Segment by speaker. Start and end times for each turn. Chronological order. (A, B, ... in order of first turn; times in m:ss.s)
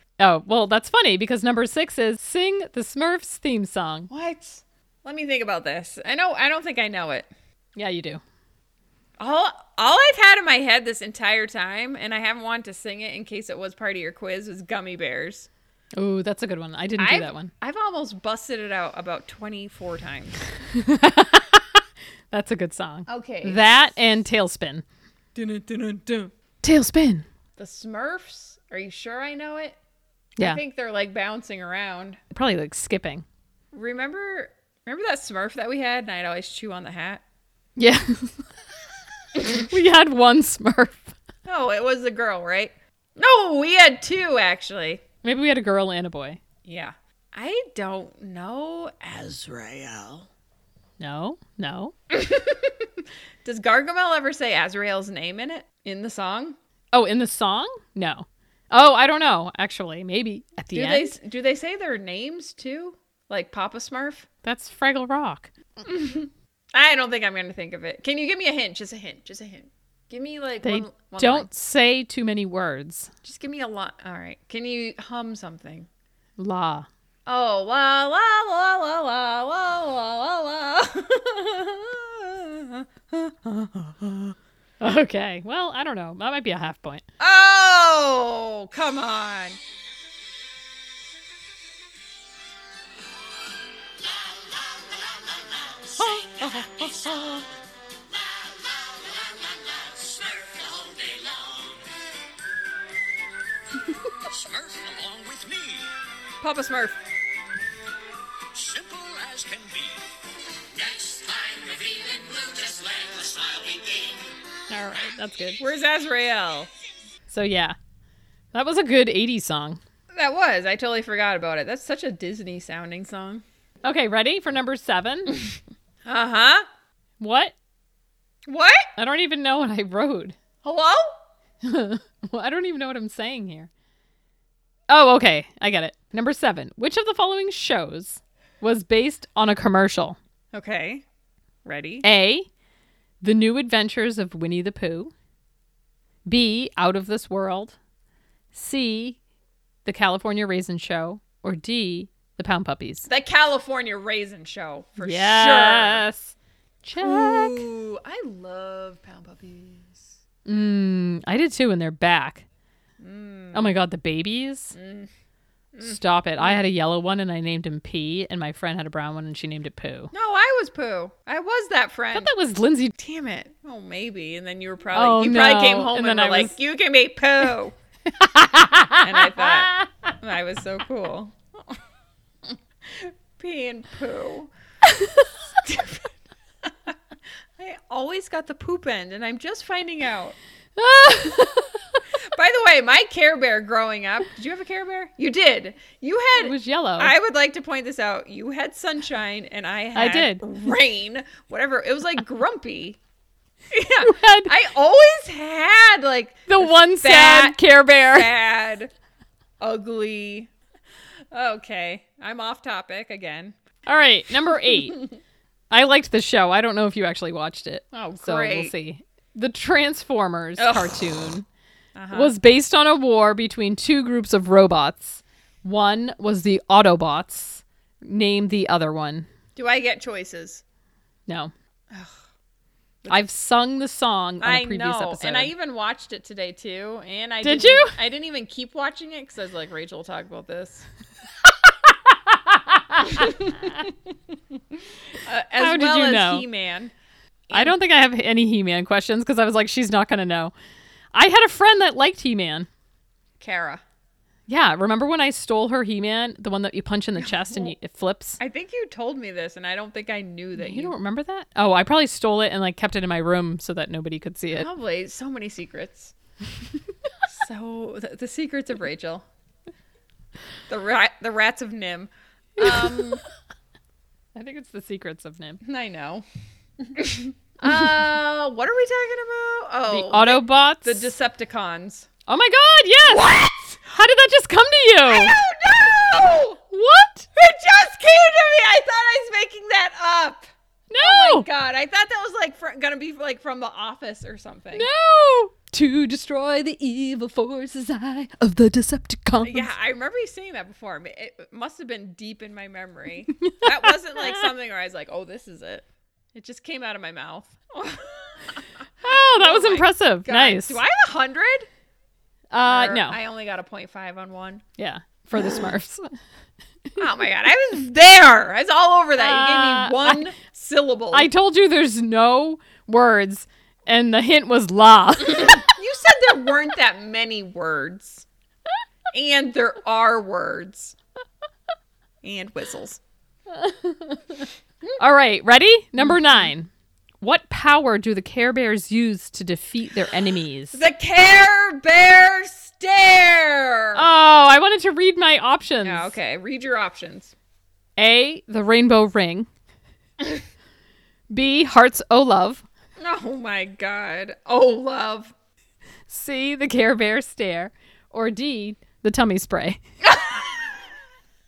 0:00.2-0:04.1 A
0:04.1-0:07.3 B
0:07.8-0:08.2 A
0:09.2-0:15.5 B
0:16.0-0:17.5 A
0:17.0-0:20.5 B
0:20.7-0:21.8 A
0:22.3-0:24.8 A
0:23.1-0:23.9 B
0:25.3-0:26.3 B
0:26.6-0:27.2 A
0:27.6-0:29.8 B
0:30.4-0:32.2 B
0:32.3-0:33.2 A
0:33.7-0:37.2 B
0:37.8-0:38.4 A
0:39.4-0:41.1 A
0:41.4-0:45.0 B
0:45.2-0:46.4 A
0:46.6-0:50.3 B
0:51.0-0:51.9 A
0:52.1-0:56.6 B
0:56.9-1:01.2 A
1:00.7-1:04.3 B
1:04.4-1:05.5 A
1:05.8-1:11.5 B
1:10.6-1:13.1 A
1:13.2-1:15.9 B
1:16.4-1:16.9 A
1:17.2-1:24.4 B
1:24.8-1:27.0 A
1:27.2-1:29.6 B
1:34.0-1:35.9 C
1:36.0-1:37.4 B
1:38.1-1:41.8 C
1:44.2-1:45.9 C
1:46.4-1:47.0 B
1:48.5-1:50.0 C
1:50.7-1:54.3 C
1:54.7-1:55.6 A
1:55.6-1:56.7 B
1:57.3-1:57.8 A
1:58.5-1:59.8 A
2:00.1-2:03.4 B
2:03.8-2:05.4 A
2:06.0-2:06.7 B
2:07.2-2:07.5 A
2:08.4-2:08.9 B
2:09.0-2:10.4 A
2:10.6-2:11.2 B
2:11.6-2:13.7 A
2:14.9-2:20.2 A
2:20.5-2:21.0 B
2:21.6-2:22.0 B
2:22.0-2:22.5 A
2:23.2-2:25.1 A
2:26.3-2:27.8 A
2:28.5-2:29.2 A
2:29.8-2:33.1 A
2:33.1-2:36.0 B
2:35.0-2:37.6 A
2:37.0-2:40.2 B
2:40.4-2:42.4 A
2:43.0-2:43.7 B
2:43.5-2:44.7 A
2:44.7-2:45.1 B
2:45.7-2:46.6 B
2:45.8-2:50.1 A
2:50.1-2:52.3 B
2:52.1-2:53.0 A
2:53.0-2:57.7 B
2:54.9-2:56.5 A
2:58.1-2:59.9 A
2:59.0-3:01.8 B
3:02.4-3:04.5 B
3:05.6-3:06.1 B
3:06.6-3:07.0 B
3:07.6-3:10.4 B
3:10.8-3:12.0 A
3:12.2-3:23.0 B
3:16.4-3:17.1 A
3:19.9-3:20.4 A
3:23.7-3:28.9 B
3:24.0-3:24.5 A
3:26.5-3:28.3 A
3:29.6-3:30.5 B
3:31.3-3:33.6 B
3:33.9-3:35.1 A
3:35.7-3:41.4 A
3:37.9-3:38.7 B
3:40.6-3:41.1 B
3:41.9-3:42.3 B
3:42.1-3:49.3 A
3:49.6-3:50.6 B
3:53.1-3:55.5 A
3:54.4-4:00.9 B
3:57.4-3:58.0 A
4:02.4-4:03.8 A
4:03.1-4:03.9 B
4:04.5-4:06.9 B
4:05.6-4:06.4 A
4:07.5-4:10.5 A
4:11.1-4:12.7 A
4:13.4-4:13.8 B
4:14.5-4:18.4 A
4:17.2-4:17.7 B
4:18.4-4:20.9 B
4:20.6-4:24.7 A
4:24.5-4:26.1 B
4:27.3-4:29.2 B
4:30.7-4:33.2 B
4:32.6-4:33.2 A
4:34.3-4:35.6 A
4:35.6-4:36.2 B
4:36.8-4:42.1 B
4:39.9-4:41.1 A
4:42.3-4:45.4 A
4:43.0-4:43.7 B
4:45.0-4:46.6 B
4:46.7-4:47.3 A
4:47.3-4:50.5 B
4:50.9-4:51.5 A
4:51.0-4:54.9 B
4:54.7-4:59.7 A
4:59.4-5:11.7 B
5:03.4-5:04.4 A
5:09.0-5:10.8 A
5:12.5-5:13.2 A
5:12.6-5:14.6 B
5:14.8-5:16.1 A
5:17.0-5:21.3 B
5:19.2-5:20.2 A
5:21.1-5:25.7 A
5:25.3-5:28.2 B
5:29.1-5:31.0 B
5:32.2-5:33.0 B
5:33.5-5:34.5 A
5:35.0-5:36.7 A
5:36.0-5:36.5 B
5:37.2-5:40.8 A
5:40.7-5:44.0 B
5:43.9-5:46.1 A
5:45.8-5:47.3 B
5:48.0-5:49.5 A
5:51.3-5:52.6 A
5:53.0-5:55.3 B
5:56.1-5:59.8 A
6:00.0-6:00.8 B